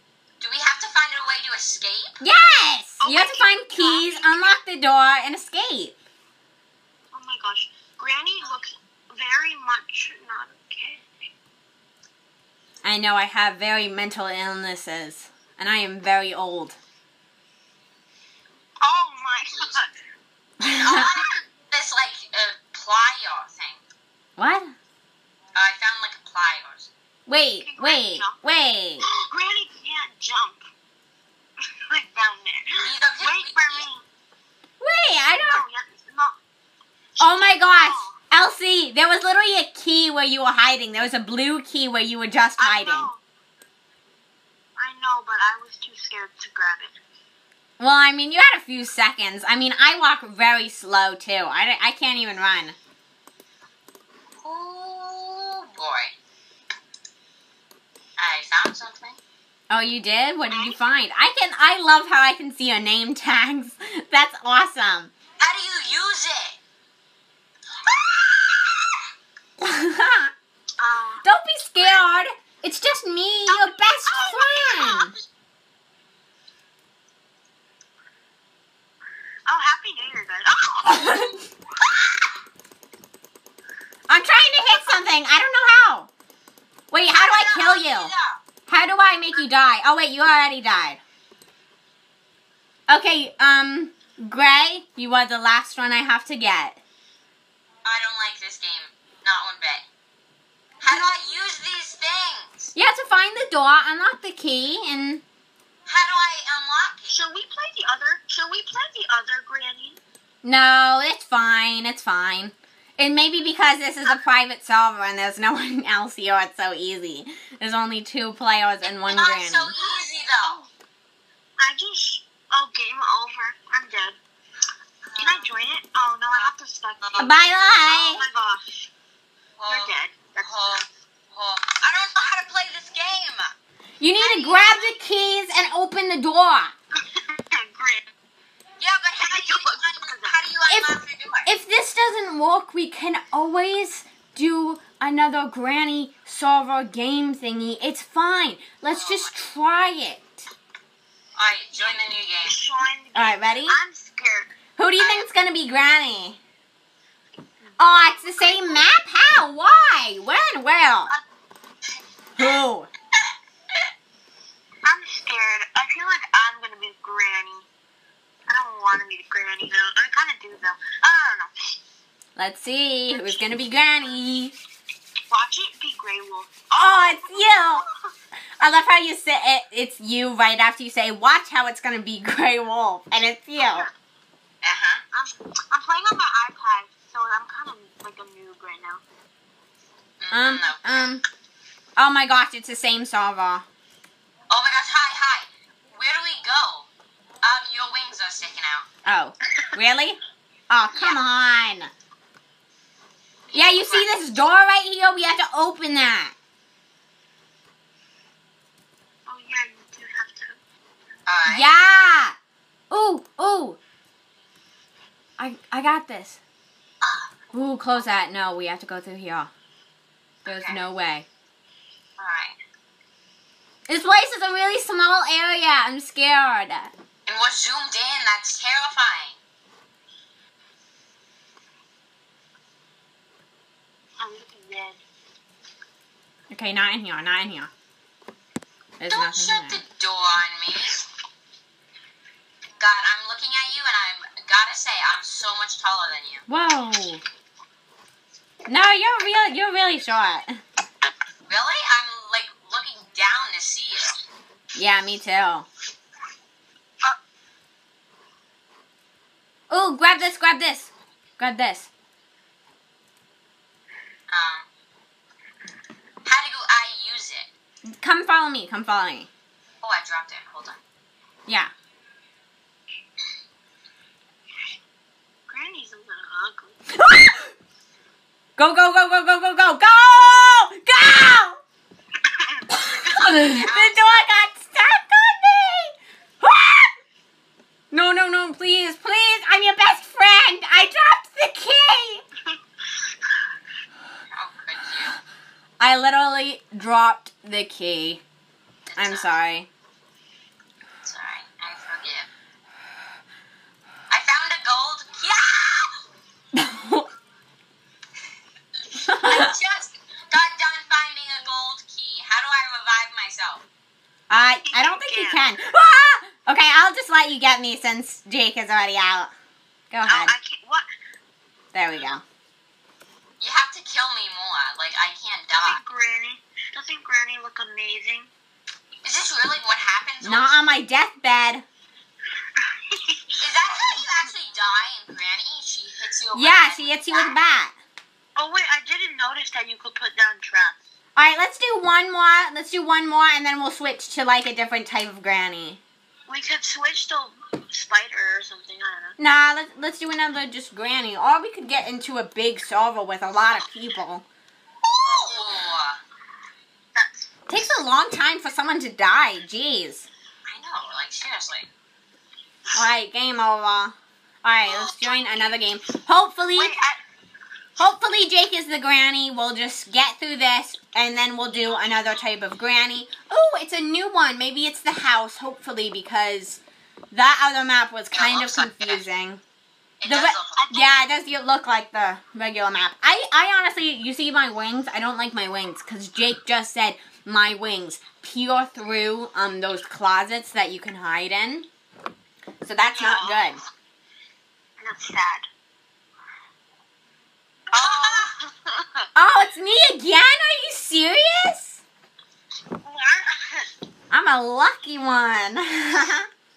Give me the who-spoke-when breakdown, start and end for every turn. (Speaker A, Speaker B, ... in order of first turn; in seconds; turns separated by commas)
Speaker A: 0.4-2.2, Speaker B: 2.2-6.0, Speaker C: 3.0-4.6, Speaker C: 7.1-11.1, Speaker B: 12.8-16.8, Speaker C: 18.8-19.9, Speaker B: 20.6-21.1, Speaker A: 20.6-23.8, Speaker C: 20.8-21.4, Speaker B: 24.4-24.8, Speaker A: 25.6-26.9, Speaker B: 27.3-29.1, Speaker C: 27.6-28.4, Speaker C: 29.0-30.6, Speaker C: 31.9-34.0, Speaker A: 32.8-33.8, Speaker B: 34.8-35.6, Speaker C: 35.4-36.4, Speaker C: 37.2-38.2, Speaker B: 37.2-43.1, Speaker C: 42.6-43.2, Speaker C: 44.8-47.0, Speaker B: 47.8-52.8, Speaker A: 54.4-56.1, Speaker A: 58.2-59.2, Speaker B: 59.7-65.1, Speaker C: 60.5-60.8, Speaker A: 65.4-66.6, Speaker A: 67.8-68.8, Speaker B: 69.6-70.3, Speaker C: 70.8-72.2, Speaker B: 71.2-75.1, Speaker C: 73.5-75.1, Speaker C: 79.5-81.3, Speaker B: 80.9-81.3, Speaker B: 84.1-86.1, Speaker B: 86.9-88.1, Speaker A: 87.1-88.4, Speaker B: 88.7-91.0, Speaker B: 92.9-96.8, Speaker A: 97.8-99.9, Speaker A: 100.8-102.7, Speaker B: 102.8-105.2, Speaker A: 105.9-107.2, Speaker C: 107.1-110.0, Speaker B: 110.4-119.7, Speaker A: 118.9-120.6, Speaker C: 119.8-120.7, Speaker C: 121.6-124.2, Speaker A: 125.1-125.5, Speaker C: 125.2-127.3, Speaker A: 127.0-127.3, Speaker B: 127.2-128.2, Speaker C: 127.9-128.9, Speaker A: 129.6-133.5, Speaker C: 129.7-130.9, Speaker B: 134.0-136.7, Speaker A: 134.2-135.0, Speaker C: 137.0-138.1, Speaker A: 138.8-141.5, Speaker C: 139.2-140.4, Speaker B: 141.4-150.5, Speaker A: 148.9-149.3, Speaker A: 151.4-152.6, Speaker C: 151.8-154.5, Speaker B: 153.2-153.8, Speaker B: 154.8-156.4, Speaker C: 157.8-158.9, Speaker B: 157.8-161.1, Speaker B: 162.4-162.9, Speaker C: 164.8-167.7, Speaker C: 168.5-171.8, Speaker B: 172.4-174.6, Speaker C: 173.1-174.2, Speaker C: 175.3-177.8, Speaker B: 176.7-177.8, Speaker B: 178.6-183.9, Speaker C: 183.6-183.9, Speaker A: 184.6-185.0, Speaker C: 185.1-189.0, Speaker A: 190.2-191.1, Speaker B: 190.3-191.2, Speaker B: 192.0-193.7, Speaker A: 194.5-196.9, Speaker A: 197.4-198.9, Speaker B: 199.1-200.2, Speaker B: 200.7-201.9, Speaker A: 200.9-201.2, Speaker A: 203.5-204.1, Speaker B: 203.5-206.3, Speaker C: 209.3-210.6, Speaker A: 211.3-211.7, Speaker B: 211.5-212.3, Speaker B: 212.9-213.8, Speaker B: 215.4-216.4, Speaker A: 217.0-217.3, Speaker B: 217.5-219.5, Speaker A: 220.4-220.8, Speaker B: 220.5-221.3, Speaker A: 222.2-222.6, Speaker B: 223.9-226.9, Speaker A: 227.3-229.4, Speaker C: 234.2-235.0, Speaker B: 236.5-237.7, Speaker B: 239.0-239.8, Speaker A: 239.1-241.0, Speaker A: 242.8-246.4, Speaker B: 246.5-247.2, Speaker B: 248.7-250.6, Speaker A: 251.5-254.2, Speaker B: 254.8-255.7, Speaker B: 259.7-261.9, Speaker A: 264.3-264.7, Speaker A: 266.2-267.5, Speaker B: 267.9-269.3, Speaker A: 269.8-270.8, Speaker C: 275.5-276.8, Speaker B: 277.0-277.4, Speaker B: 278.6-281.6, Speaker C: 282.3-282.7, Speaker B: 283.0-286.9, Speaker A: 283.3-284.0, Speaker B: 287.9-292.2, Speaker A: 294.3-295.2, Speaker B: 295.8-298.2, Speaker A: 298.9-299.4, Speaker B: 299.0-299.7, Speaker A: 301.0-302.3, Speaker A: 304.1-305.9, Speaker B: 306.5-307.1, Speaker B: 309.1-309.5, Speaker A: 309.1-313.6, Speaker B: 314.3-319.3, Speaker C: 314.6-315.4, Speaker B: 319.9-320.4, Speaker C: 320.1-320.9, Speaker B: 321.7-322.2, Speaker A: 323.4-325.8, Speaker C: 325.5-328.3, Speaker A: 329.1-330.6, Speaker B: 330.2-331.6, Speaker C: 332.6-333.4, Speaker A: 333.4-337.4, Speaker B: 336.4-337.7, Speaker C: 338.4-340.8, Speaker B: 341.2-345.8, Speaker C: 346.3-349.2, Speaker B: 349.2-354.2, Speaker A: 354.9-356.0, Speaker C: 355.1-355.5, Speaker C: 356.9-357.4, Speaker B: 357.5-360.1, Speaker A: 360.5-361.7, Speaker B: 362.7-366.8, Speaker A: 364.6-365.6, Speaker C: 366.6-367.0, Speaker B: 367.8-376.6, Speaker B: 377.1-379.4, Speaker A: 378.1-379.0, Speaker A: 380.0-380.7, Speaker B: 380.1-391.7, Speaker C: 380.6-381.0, Speaker B: 392.6-393.6, Speaker C: 392.8-393.6, Speaker C: 394.8-395.5, Speaker C: 397.7-399.0, Speaker A: 397.7-398.3, Speaker B: 399.1-401.8, Speaker C: 402.8-403.7, Speaker B: 404.1-406.3